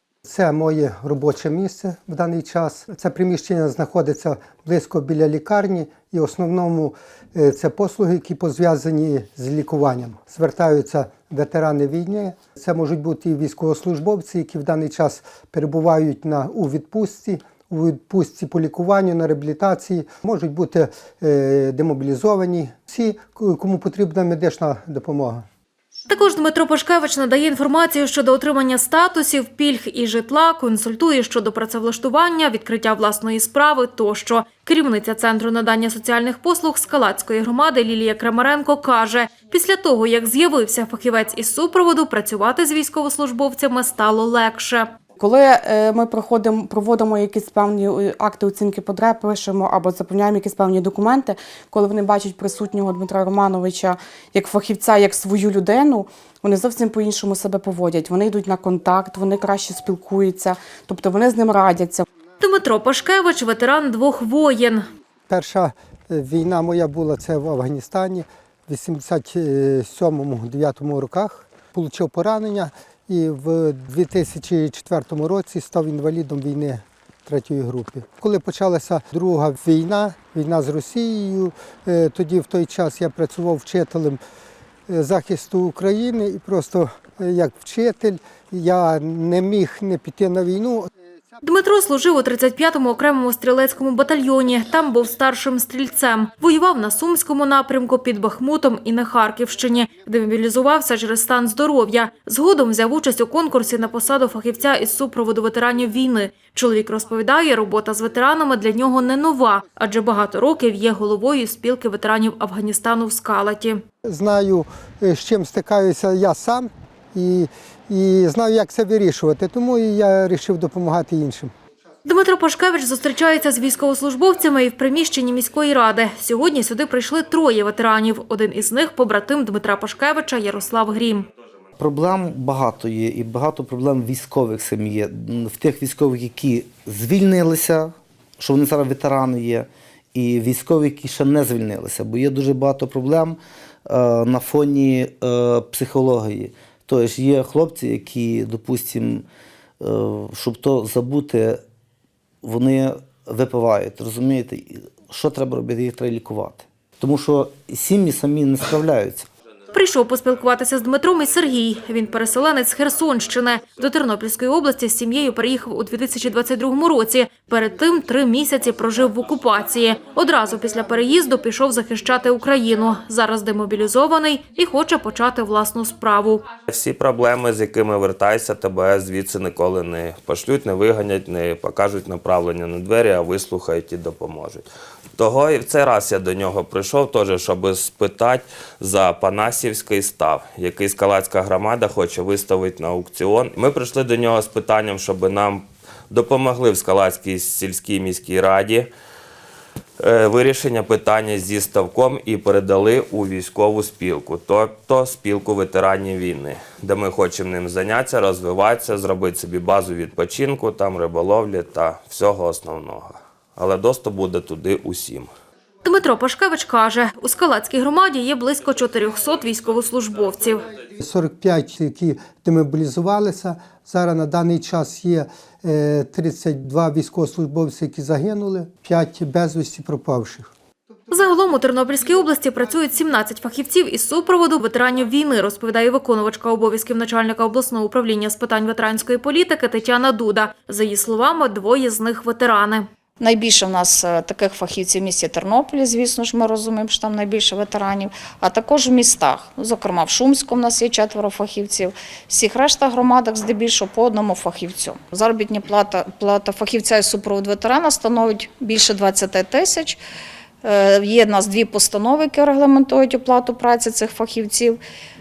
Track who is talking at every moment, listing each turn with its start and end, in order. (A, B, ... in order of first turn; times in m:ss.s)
0:00.2-0:25.4 A
0:26.1-0:44.9 B
0:45.2-1:02.0 C
1:02.4-1:04.9 B
1:05.3-1:24.2 A
1:24.9-1:30.9 A
1:31.4-1:53.8 B
1:54.0-2:01.5 A
2:02.0-2:11.3 B
2:11.8-2:29.2 D
2:29.8-2:31.6 D
2:32.4-2:39.3 D
2:39.7-2:56.4 B
2:56.7-3:04.7 E
3:05.2-3:18.9 E
3:20.0-3:35.3 E
3:35.8-3:40.7 B
3:41.0-3:50.5 A
3:51.1-4:02.9 B
4:03.2-4:20.0 F
4:20.6-4:24.8 F